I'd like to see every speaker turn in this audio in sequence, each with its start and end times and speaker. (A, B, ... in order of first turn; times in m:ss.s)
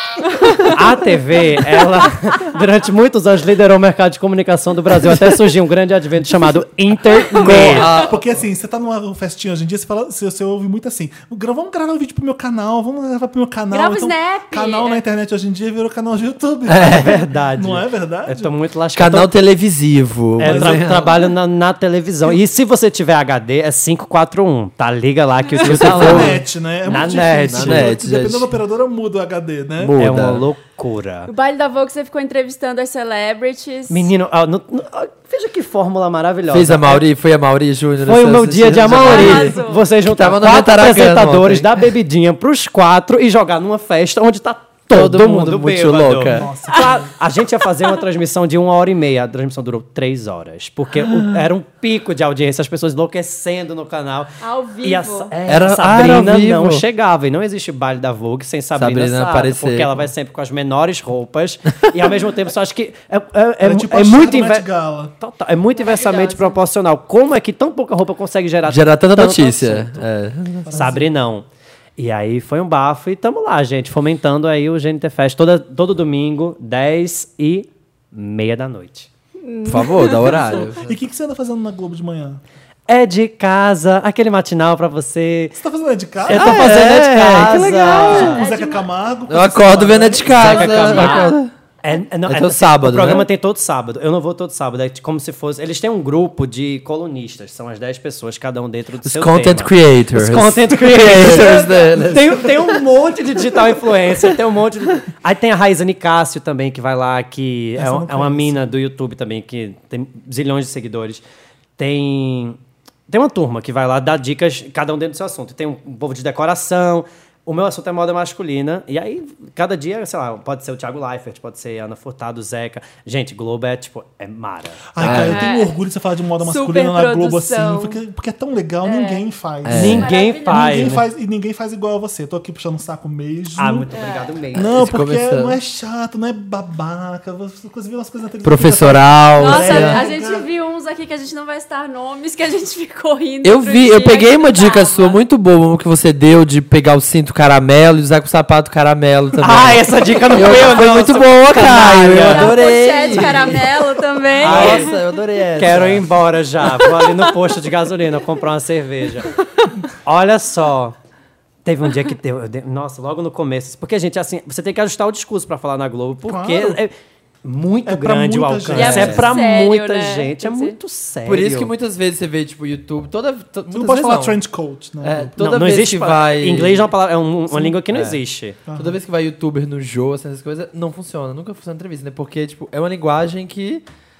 0:00.4-0:00.7 A
0:00.6-0:07.9 B
0:07.3-0:08.4 C
0:07.6-0:18.5 D
0:13.7-0:15.0 A
0:16.7-0:17.2 C
0:16.8-0:19.3 B
0:19.0-0:21.1 C
0:20.4-0:27.8 B
0:20.4-0:21.2 D
0:25.6-0:26.4 C
0:25.7-0:29.9 D
0:27.5-0:28.5 C
0:29.8-0:30.4 C
0:30.0-0:31.3 B
0:31.3-0:34.1 A
0:33.9-0:37.0 B
0:36.5-0:41.8 C
0:38.0-0:54.3 B
0:38.9-0:39.8 A
0:44.9-0:46.5 C
0:46.3-0:47.1 D
0:54.4-0:55.3 A
0:54.8-1:04.7 B
0:55.5-0:56.8 C
0:58.8-1:00.0 C
1:03.6-1:05.1 D
1:05.2-1:10.0 B
1:05.8-1:06.6 A
1:08.7-1:10.8 C
1:10.6-1:11.1 D
1:10.7-1:19.1 B
1:19.6-1:20.9 C
1:19.7-1:20.7 A
1:20.3-1:22.4 D
1:22.9-1:25.6 B
1:25.5-1:26.8 D
1:26.3-1:28.4 B
1:26.3-1:28.4 C
1:27.8-1:28.8 A
1:27.9-1:30.7 D
1:29.3-1:31.5 C
1:30.4-1:51.2 B
1:30.4-1:31.3 A
1:32.3-1:33.2 C
1:39.0-1:42.6 C
1:47.8-1:48.6 D
1:51.8-1:52.6 B
1:53.1-2:05.2 B
2:04.9-2:13.9 D
2:05.0-2:05.5 C
2:05.1-2:05.7 A
2:06.4-2:08.0 A
2:08.8-2:09.2 A
2:09.6-2:10.1 C
2:09.7-2:11.0 B
2:09.8-2:11.0 A
2:13.6-2:14.8 B
2:13.9-2:14.3 A
2:14.5-2:20.5 D
2:14.6-2:15.6 C
2:18.4-2:20.0 C
2:19.4-2:25.2 A
2:23.4-2:36.1 C
2:29.4-2:32.6 B
2:32.2-2:34.9 A
2:34.4-2:34.9 B
2:35.6-2:39.3 B
2:40.0-2:40.9 B
2:41.6-2:46.9 B
2:46.2-2:46.8 D
2:47.4-2:51.7 B
2:47.8-2:49.3 D
2:48.7-2:50.8 A
2:51.2-2:54.4 C
2:53.7-2:55.3 D
2:55.0-2:56.8 C
2:55.4-2:58.6 B
2:58.6-2:59.0 D
2:58.8-3:03.8 C